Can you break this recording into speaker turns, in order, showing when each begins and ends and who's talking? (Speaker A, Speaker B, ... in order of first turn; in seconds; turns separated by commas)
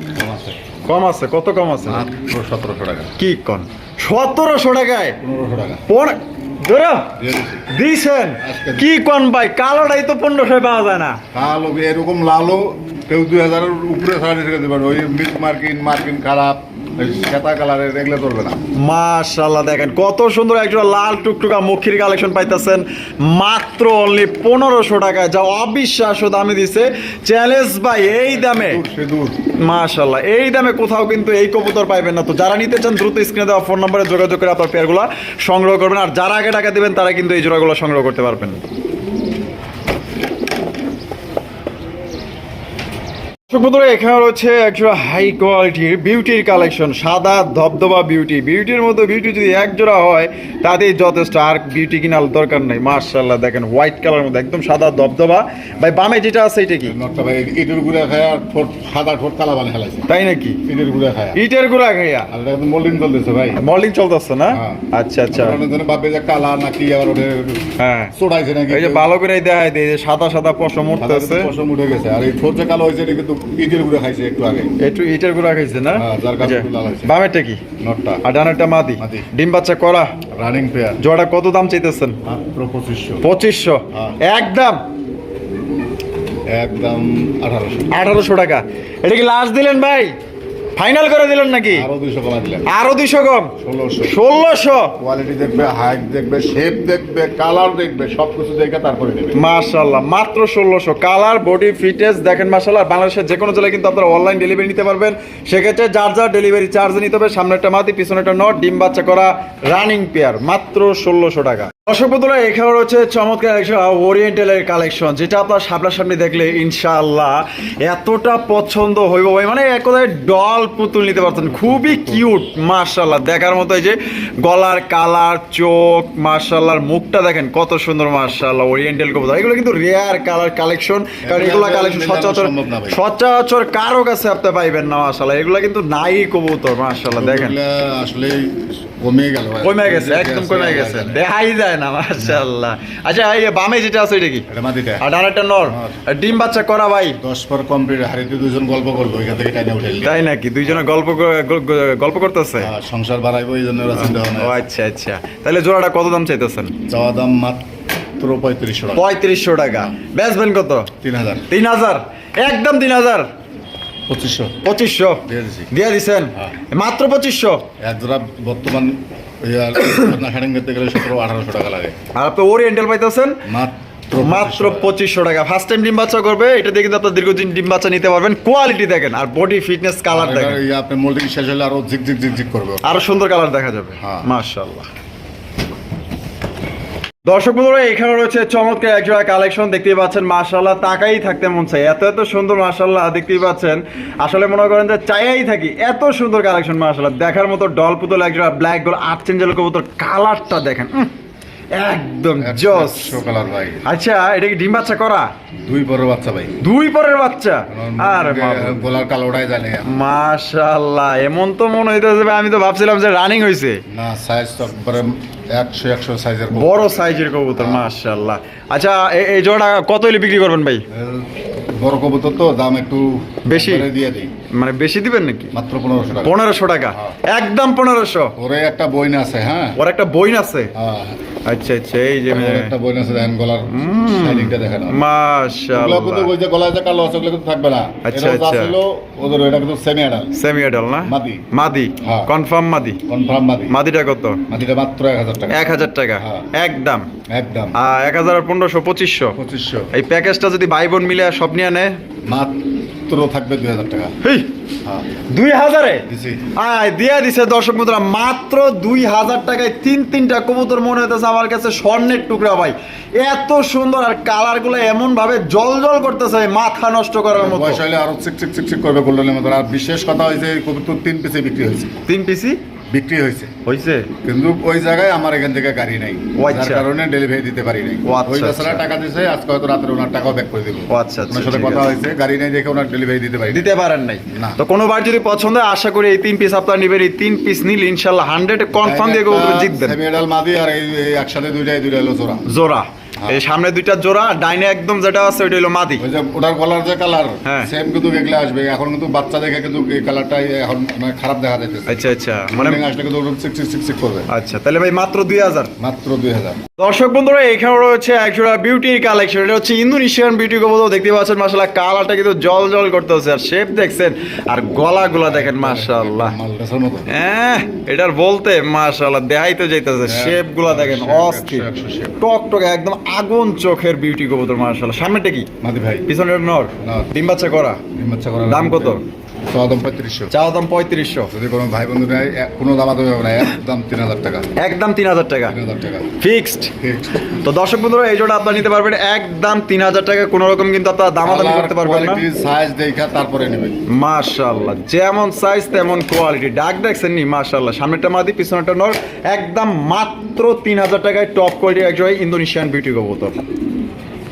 Speaker A: 0.1-0.6, Speaker B: 0.8-2.0, Speaker A: 1.8-3.1, Speaker B: 3.2-5.2, Speaker A: 5.2-5.8, Speaker B: 5.9-7.1, Speaker A: 7.2-7.7, Speaker B: 7.7-11.2, Speaker A: 8.4-8.9, Speaker A: 11.3-18.6, Speaker B: 18.8-28.8, Speaker A: 28.0-29.4, Speaker B: 29.6-38.6, Speaker B: 43.5-56.9, Speaker A: 56.9-60.1, Speaker B: 60.1-60.6, Speaker A: 60.6-61.4, Speaker B: 61.3-62.3, Speaker A: 62.3-63.6, Speaker B: 63.6-65.6, Speaker A: 64.5-69.1, Speaker B: 67.8-68.1, Speaker B: 68.7-71.5, Speaker A: 71.0-74.7, Speaker B: 74.8-77.6, Speaker A: 75.9-77.1, Speaker A: 77.8-78.2, Speaker B: 78.2-80.1, Speaker A: 79.0-79.3, Speaker A: 80.3-81.0, Speaker B: 81.0-82.2, Speaker A: 82.2-83.2, Speaker B: 83.2-84.8, Speaker A: 83.9-84.2, Speaker A: 86.5-87.9, Speaker B: 87.9-90.2, Speaker B: 90.8-91.9, Speaker A: 91.7-92.7, Speaker B: 92.7-95.0, Speaker A: 93.6-94.2, Speaker A: 95.0-99.4, Speaker B: 99.3-137.6, Speaker A: 121.5-122.3, Speaker A: 131.2-133.0, Speaker A: 137.1-141.2, Speaker B: 139.6-144.4, Speaker A: 144.5-145.0, Speaker B: 145.0-147.2, Speaker A: 145.7-146.0, Speaker A: 147.2-150.8, Speaker B: 150.0-152.7, Speaker A: 152.6-154.6, Speaker B: 154.0-156.7, Speaker A: 156.9-157.7, Speaker A: 158.2-159.1, Speaker B: 158.9-160.9, Speaker A: 161.0-161.5, Speaker B: 161.5-163.3, Speaker A: 164.1-164.6, Speaker B: 164.6-167.7, Speaker A: 165.2-165.7, Speaker A: 167.8-171.9, Speaker B: 172.1-173.4, Speaker A: 173.4-174.9, Speaker B: 174.2-180.6, Speaker A: 180.1-183.1, Speaker B: 182.8-184.9, Speaker A: 184.0-184.3, Speaker B: 187.2-201.1, Speaker B: 201.7-203.2, Speaker A: 202.4-203.8, Speaker B: 203.8-205.3, Speaker A: 205.6-206.6, Speaker B: 206.6-208.8, Speaker A: 207.7-210.1, Speaker B: 209.8-213.8, Speaker A: 213.9-217.9, Speaker B: 216.5-220.8, Speaker A: 220.9-224.3, Speaker B: 223.4-223.9, Speaker B: 224.5-225.5, Speaker A: 225.5-226.4, Speaker B: 226.2-228.3, Speaker A: 228.3-229.8, Speaker B: 229.8-230.7, Speaker A: 230.7-231.2, Speaker B: 231.4-232.7, Speaker A: 232.3-235.0, Speaker B: 233.7-236.3, Speaker A: 235.7-240.3, Speaker B: 238.0-238.8, Speaker B: 240.3-243.0, Speaker A: 241.0-242.3, Speaker A: 243.1-243.8, Speaker B: 243.7-244.4, Speaker A: 244.5-246.5, Speaker B: 245.5-247.1, Speaker A: 247.3-247.8, Speaker B: 247.7-249.4, Speaker A: 249.3-249.9, Speaker B: 249.9-252.0, Speaker A: 252.2-254.2, Speaker B: 254.2-254.5, Speaker B: 255.3-267.8, Speaker A: 256.1-256.5, Speaker A: 267.3-271.9, Speaker B: 272.1-272.6, Speaker A: 272.9-273.5, Speaker B: 273.6-274.1, Speaker A: 274.2-283.7, Speaker B: 276.4-276.9, Speaker B: 278.0-278.8, Speaker B: 280.9-281.9, Speaker B: 283.5-290.0, Speaker A: 284.3-284.6, Speaker A: 288.8-292.4, Speaker B: 292.4-296.0, Speaker A: 296.0-304.3, Speaker B: 297.4-297.7, Speaker B: 301.9-302.8, Speaker B: 304.3-305.7, Speaker A: 305.8-306.6, Speaker B: 306.8-316.3, Speaker A: 315.2-317.1, Speaker B: 317.1-321.7, Speaker A: 320.0-322.2, Speaker B: 322.2-325.5, Speaker A: 325.6-326.1, Speaker B: 326.1-327.8, Speaker A: 326.8-327.1, Speaker A: 327.9-330.3, Speaker B: 328.5-329.0, Speaker B: 330.3-331.3, Speaker A: 331.3-334.5, Speaker B: 334.6-335.6, Speaker A: 335.5-336.2, Speaker B: 336.2-336.7, Speaker A: 336.7-337.5, Speaker B: 337.4-342.2, Speaker A: 341.2-343.8, Speaker B: 343.9-353.4